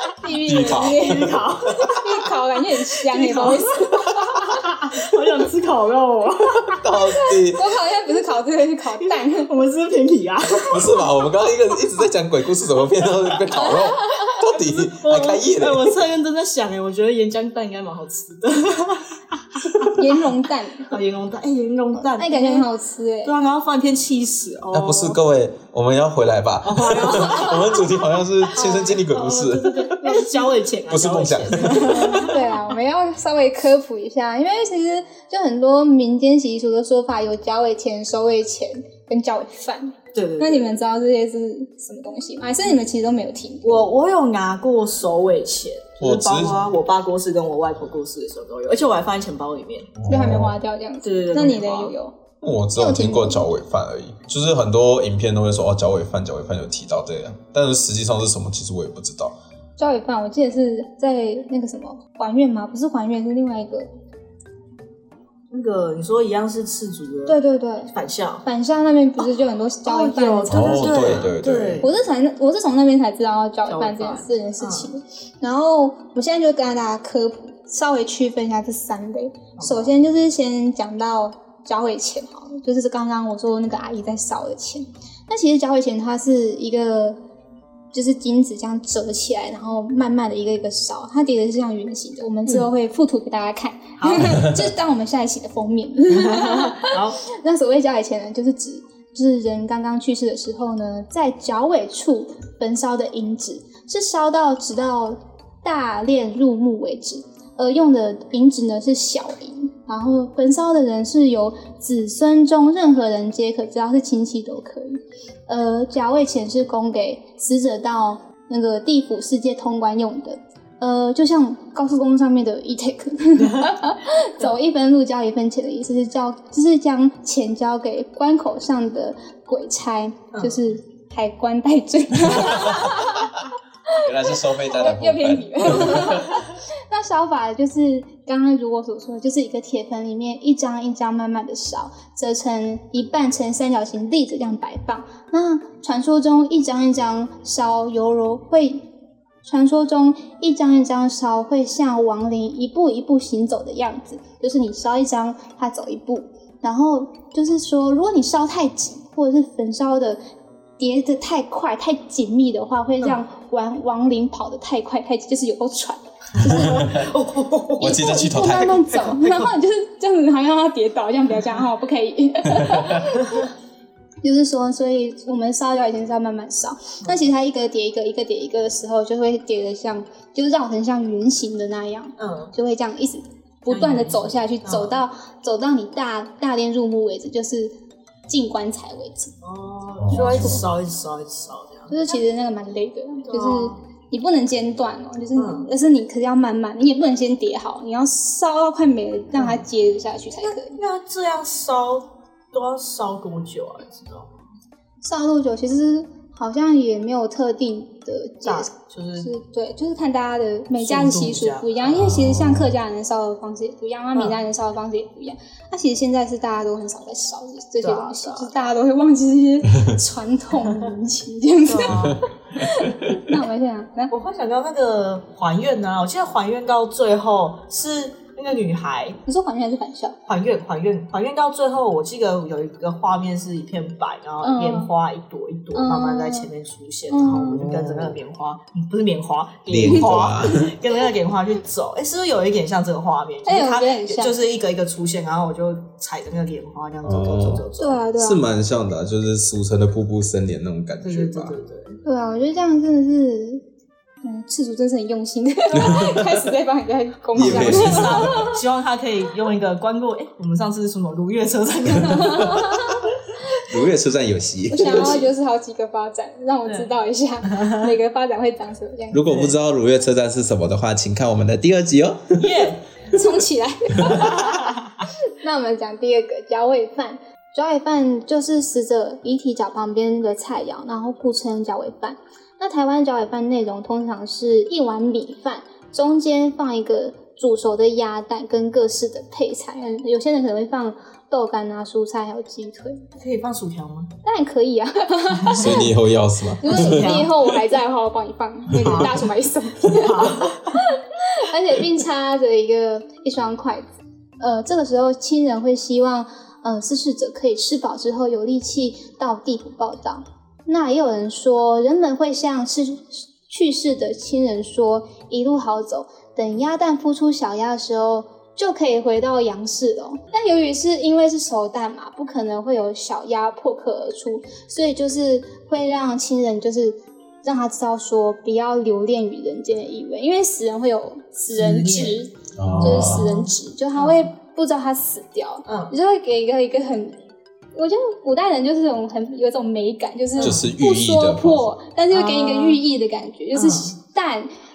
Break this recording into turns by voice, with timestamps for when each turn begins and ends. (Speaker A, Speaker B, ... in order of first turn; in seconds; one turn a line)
Speaker A: 0.2-1.4
Speaker B: 0.4-1.9
Speaker C: 0.7-2.1
Speaker A: 1.9-4.8
Speaker C: 2.9-6.8
Speaker B: 6.8-7.7
Speaker A: 6.9-9.5
Speaker C: 9.0-11.0
Speaker B: 10.7-15.9
Speaker A: 13.5-14.4
Speaker C: 14.9-20.1
Speaker A: 19.8-20.9
Speaker C: 20.9-22.7
Speaker A: 22.0-23.3
Speaker C: 23.2-25.2
Speaker B: 24.7-30.3
Speaker C: 26.6-27.9
Speaker A: 27.3-27.7
Speaker C: 28.5-32.6
Speaker A: 28.6-29.0
Speaker B: 30.9-32.1
Speaker A: 31.8-43.9
Speaker C: 40.1-40.7
Speaker C: 43.6-50.0
Speaker B: 46.0-46.6
Speaker B: 50.0-50.5
Speaker A: 50.0-52.1
Speaker C: 51.0-51.9
Speaker B: 52.4-59.4
Speaker A: 52.7-53.5
Speaker A: 59.8-63.9
Speaker C: 65.5-68.4
Speaker A: 67.3-71.3
Speaker C: 69.8-71.9
Speaker B: 70.5-71.8
Speaker A: 71.8-87.2
Speaker C: 73.7-74.9
Speaker C: 79.6-80.0
Speaker A: 87.9-148.8
Speaker C: 94.0-94.5
Speaker C: 96.1-97.2
Speaker C: 123.4-123.8
Speaker B: 132.5-132.9
Speaker B: 134.0-136.4
Speaker A: 149.4-160.2
Speaker A: 160.8-166.9
Speaker C: 166.4-168.3
Speaker B: 166.5-167.1
Speaker B: 167.8-168.9
Speaker A: 167.8-173.5
Speaker C: 168.9-169.5
Speaker B: 172.6-172.9
Speaker A: 174.2-187.7
Speaker C: 182.2-182.5
Speaker C: 183.7-185.0
Speaker A: 188.3-189.3
Speaker C: 189.4-191.9
Speaker B: 190.0-190.6
Speaker A: 190.1-190.6
Speaker A: 191.9-200.8
Speaker C: 193.3-193.8
Speaker C: 195.3-195.7
Speaker C: 199.3-199.6
Speaker C: 200.4-204.3
Speaker A: 205.0-224.1
Speaker C: 208.4-209.3
Speaker C: 210.8-211.8
Speaker B: 211.9-212.7
Speaker C: 214.1-214.4
Speaker C: 217.8-218.5
Speaker C: 221.6-222.2
Speaker B: 221.9-222.2
Speaker C: 224.1-229.2
Speaker A: 229.2-230.2
Speaker C: 230.3-248.0
Speaker A: 234.4-234.9
Speaker A: 235.7-236.5
Speaker A: 237.1-237.7
Speaker B: 237.5-238.2
Speaker B: 239.7-240.7
Speaker A: 243.4-244.3
Speaker B: 247.0-247.6
Speaker A: 247.8-248.4
Speaker B: 248.2-251.6
Speaker C: 251.0-252.0
Speaker A: 252.0-253.6
Speaker A: 254.2-258.6
Speaker B: 255.7-256.5
Speaker B: 257.3-258.4
Speaker C: 257.4-263.1
Speaker A: 262.0-263.6
Speaker B: 263.6-265.2
Speaker A: 264.7-269.2
Speaker C: 264.8-265.3
Speaker C: 267.5-267.8
Speaker B: 269.1-272.6
Speaker C: 269.2-269.5
Speaker C: 272.4-272.8
Speaker A: 273.1-274.8
Speaker C: 274.2-274.8
Speaker A: 275.4-293.1
Speaker C: 293.2-294.1
Speaker A: 294.2-295.9
Speaker C: 295.4-295.8
Speaker B: 295.5-297.2
Speaker A: 296.6-303.9
Speaker C: 296.6-297.4
Speaker B: 298.7-299.1
Speaker C: 298.8-299.2
Speaker C: 299.9-300.8
Speaker A: 304.4-337.2
Speaker C: 331.5-332.2
Speaker B: 332.6-333.4
Speaker C: 332.8-333.4
Speaker C: 333.9-334.2
Speaker C: 335.7-335.9
Speaker A: 337.7-344.5
Speaker C: 340.4-340.7
Speaker B: 340.4-341.7
Speaker C: 342.1-342.8
Speaker C: 343.5-343.9